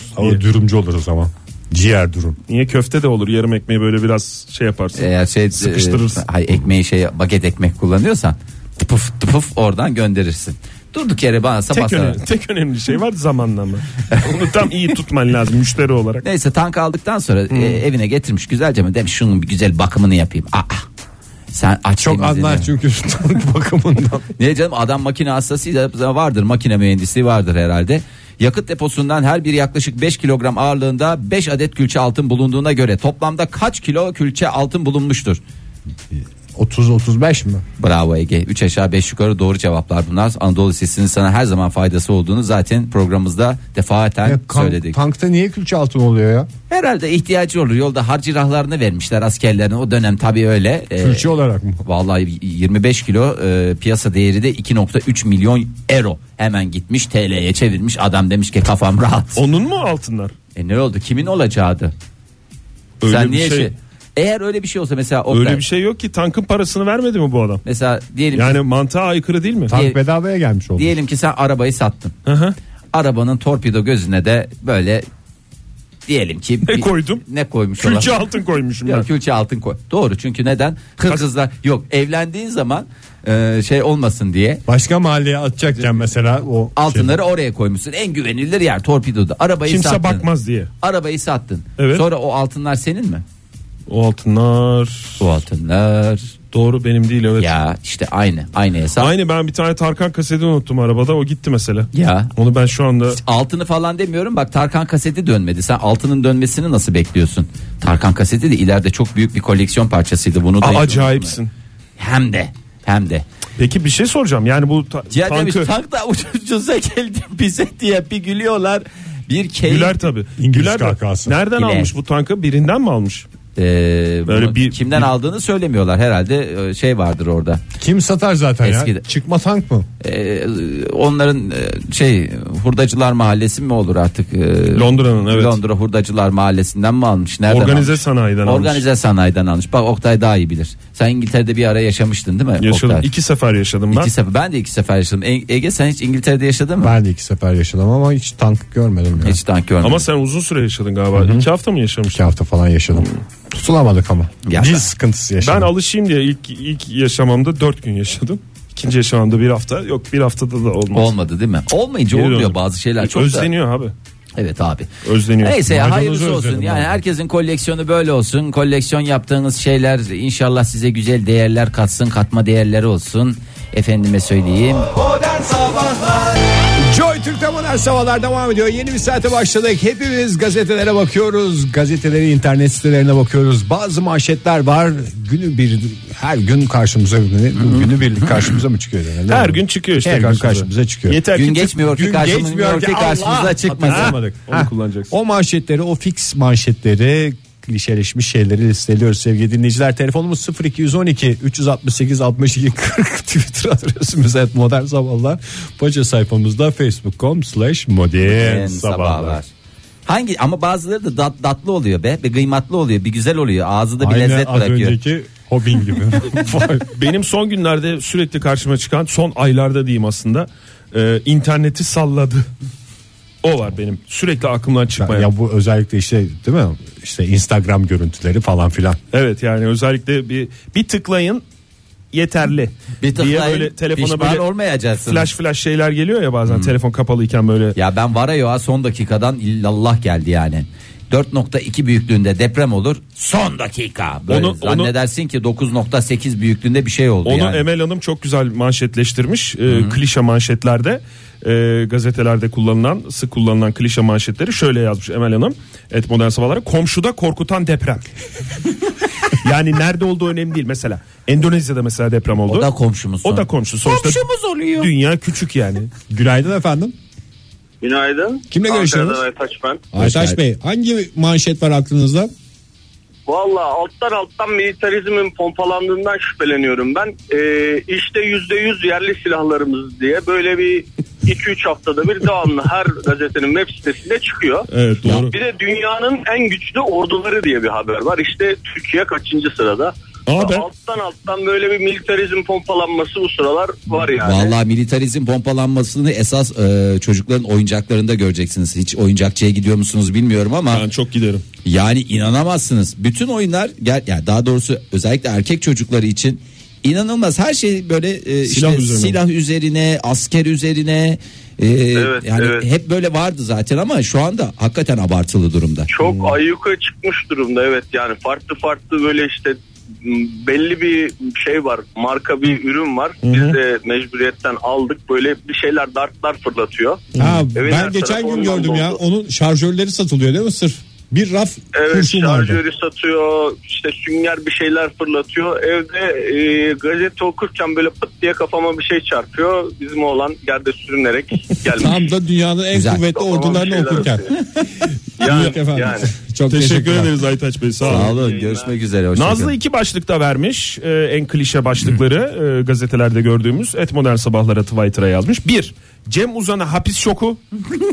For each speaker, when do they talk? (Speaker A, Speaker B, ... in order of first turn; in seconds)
Speaker A: 0.1-2.4, 22.0-24.3, 36.1-37.6, 44.2-46.5, 51.0-51.8, 69.7-70.9, 84.7-87.2, 120.4-121.4, 127.8-129.9, 146.8-149.4, 151.1-151.4, 152.1-155.7, 165.7-167.0, 176.8-191.2, 191.8-209.4, 214.0-216.9, 225.0-229.0, 266.1-266.9, 268.5-269.2, 269.9-272.3, 327.2-332.6, 341.8-344.3, 345.2-347.1
Speaker B: 2.5-6.2, 11.7-16.2, 17.5-17.8, 59.4-60.3, 63.0-63.7, 65.3-67.6, 68.3-69.7, 72.2-72.6, 76.7-77.2, 77.8-79.1, 89.7-90.7, 91.8-92.0, 93.9-95.2, 96.5-97.5, 99.0-103.2, 110.6-111.5, 113.6-115.7, 119.7-123.2, 124.3-125.1, 134.7-135.6, 137.5-138.8, 142.6-144.1, 149.8-152.3, 155.4-161.1, 162.1-163.9, 165.0-165.6, 189.3-191.8, 193.9-195.1, 216.8-222.5, 223.4-225.3, 229.1-231.4, 232.1-234.5, 235.0-237.8, 244.3-244.9, 247.2-258.1, 259.3-262.7, 263.2-264.2, 264.8-265.9, 284.7-285.3, 290.3-290.7, 300.7-301.4, 308.5-309.2, 316.0-316.4, 323.2-323.6, 327.2-327.4, 346.5-348.2, 349.1-357.4
Speaker C: 5.0-12.2, 16.2-20.9, 21.5-22.7, 24.4-35.4, 37.8-45.0, 46.7-51.3, 51.8-59.4, 60.5-61.9, 63.1-65.6, 67.6-68.6, 69.7-70.0, 70.8-72.1, 72.9-75.1, 76.1-78.2, 78.8-84.6, 86.8-90.3, 90.8-93.2, 95.2-96.3, 97.4-99.1, 101.9-102.3, 103.1-111.3, 112.0-113.2, 115.1-120.0, 121.6-121.9, 123.6-127.6, 128.6-129.1, 130.0-143.1, 143.9-147.0, 149.2-150.1, 154.4-154.9, 160.9-163.5, 164.4-164.9, 165.4-174.9, 191.3-194.2, 208.2-209.5, 210.1-215.0, 233.0-235.3, 236.5-236.7, 237.8-247.6, 249.7-250.0, 262.5-264.9, 270.0-270.4, 285.1-285.3, 294.2-300.8, 301.6-315.9, 342.7-343.0, 347.8-349.5
Speaker D: 267.8-269.9, 273.2-294.6, 311.9-312.7, 315.9-329.0, 331.7-342.1, 343.0-344.4, 345.2-346.1, 347.8-348.7